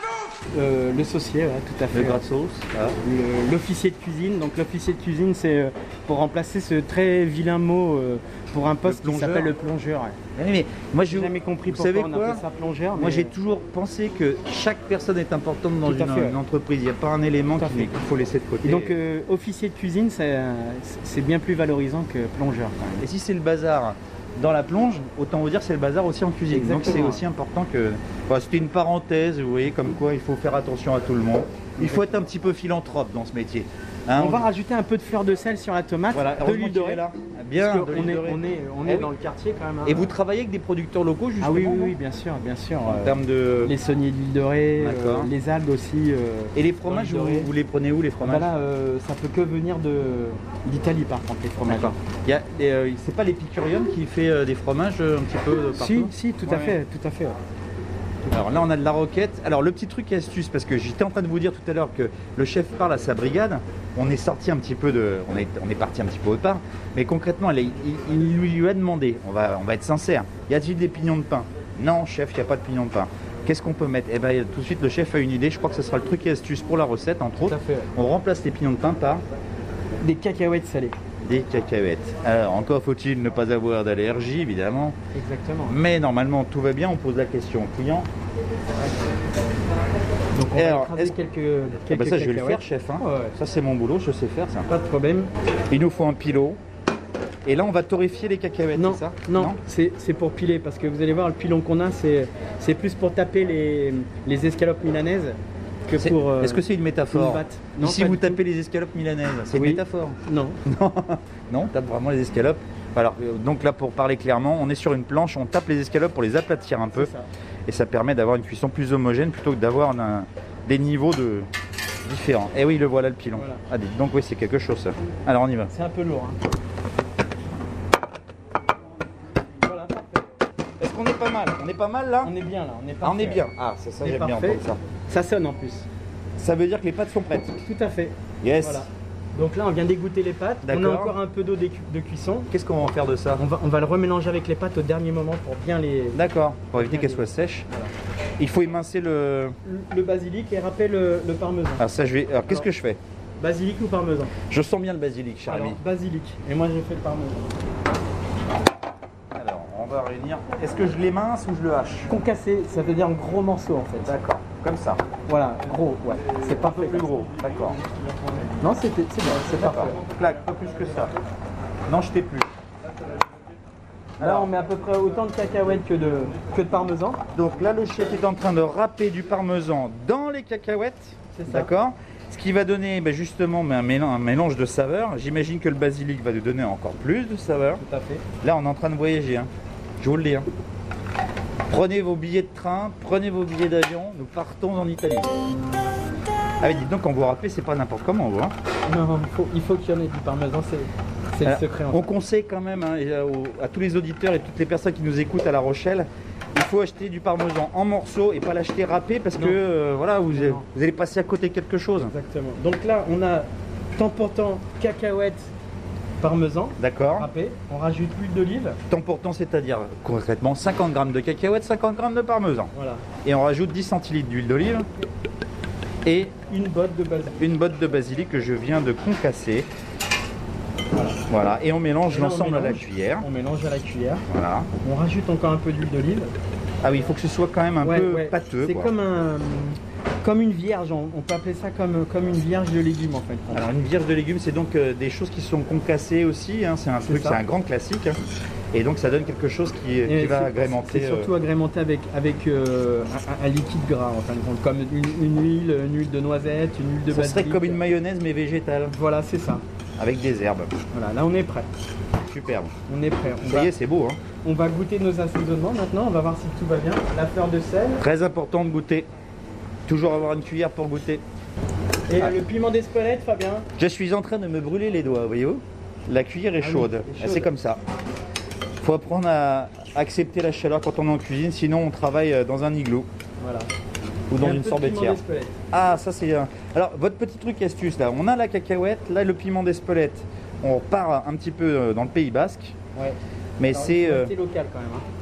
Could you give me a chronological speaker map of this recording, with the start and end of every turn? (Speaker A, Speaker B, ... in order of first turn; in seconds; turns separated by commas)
Speaker A: 0.5-2.2, Speaker B: 1.9-3.0, Speaker A: 3.0-10.2, Speaker B: 8.8-9.5, Speaker B: 10.4-12.4, Speaker A: 11.1-13.3, Speaker B: 12.9-18.9, Speaker A: 15.8-16.4, Speaker A: 17.6-18.0, Speaker A: 18.6-23.0, Speaker B: 22.9-34.5, Speaker A: 26.5-27.2, Speaker A: 31.8-32.1, Speaker A: 34.2-37.0, Speaker B: 36.1-39.1, Speaker A: 37.6-40.1, Speaker B: 39.8-42.0, Speaker A: 41.4-47.5, Speaker B: 42.9-43.7, Speaker B: 44.8-45.3, Speaker B: 46.5-48.5, Speaker A: 48.2-52.0, Speaker B: 51.6-56.8, Speaker A: 55.7-57.4, Speaker B: 58.3-79.2, Speaker A: 77.4-77.9, Speaker A: 80.0-81.0, Speaker B: 81.2-85.0, Speaker A: 85.2-85.8, Speaker B: 85.7-88.1, Speaker A: 90.3-93.3, Speaker B: 90.6-91.2, Speaker B: 91.9-94.7, Speaker A: 94.7-95.3, Speaker B: 95.7-96.6, Speaker B: 97.5-99.6, Speaker A: 98.8-108.4, Speaker B: 106.0-117.1, Speaker A: 109.5-110.6, Speaker A: 116.9-117.3, Speaker B: 117.7-121.5, Speaker B: 122.0-125.7, Speaker A: 123.4-123.6, Speaker A: 125.7-126.4, Speaker A: 129.6-130.3, Speaker B: 130.8-132.3, Speaker A: 132.2-133.4, Speaker B: 133.0-134.8, Speaker A: 134.0-135.9, Speaker B: 136.4-137.6, Speaker A: 137.6-142.5, Speaker B: 138.4-138.9, Speaker B: 140.6-141.2, Speaker B: 142.5-143.4, Speaker A: 143.4-146.2, Speaker B: 146.2-147.7, Speaker A: 146.7-147.9, Speaker B: 148.4-149.6, Speaker A: 149.7-151.8, Speaker B: 151.8-153.0, Speaker A: 153.4-154.3, Speaker B: 154.5-155.8, Speaker A: 155.5-157.5, Speaker B: 159.3-162.1, Speaker A: 162.1-164.2, Speaker B: 164.1-165.0, Speaker A: 165.3-167.1, Speaker B: 166.4-167.8, Speaker A: 168.6-170.0, Speaker B: 169.3-171.2, Speaker B: 171.9-172.5, Speaker B: 174.2-174.5, Speaker A: 174.2-177.2, Speaker B: 177.3-187.8, Speaker A: 181.3-181.7, Speaker A: 187.8-188.2, Speaker B: 188.4-189.5, Speaker B: 190.0-190.5, Speaker B: 191.7-195.3, Speaker B: 196.6-198.5, Speaker A: 198.9-202.1, Speaker B: 201.4-212.1, Speaker A: 210.3-210.7, Speaker A: 212.1-215.5, Speaker A: 216.2-218.8, Speaker B: 216.8-217.3, Speaker B: 218.9-222.7, Speaker A: 222.7-223.1, Speaker B: 223.2-224.9, Speaker B: 226.1-226.4, Speaker A: 226.4-227.4, Speaker B: 227.4-229.7, Speaker B: 231.3-233.3, Speaker A: 232.1-234.2, Speaker B: 234.3-234.7, Speaker A: 234.8-236.3, Speaker B: 236.8-238.9, Speaker A: 237.8-243.7, Speaker B: 243.5-248.2, Speaker A: 247.0-247.4, Speaker B: 248.7-251.3, Speaker A: 250.1-257.8, Speaker B: 257.1-258.9, Speaker A: 258.9-259.6, Speaker B: 260.0-260.7, Speaker A: 260.9-261.7, Speaker B: 262.2-262.7, Speaker A: 262.9-263.7, Speaker B: 263.4-264.2, Speaker A: 264.4-268.0, Speaker B: 268.0-269.1, Speaker B: 269.9-271.2, Speaker A: 272.1-273.7, Speaker B: 273.8-277.8, Speaker A: 276.6-277.5, Speaker B: 278.8-283.1, Speaker A: 283.4-283.7, Speaker B: 284.3-285.2, Speaker A: 284.4-285.6, Speaker B: 285.7-292.8, Speaker A: 293.0-295.1, Speaker B: 293.6-294.3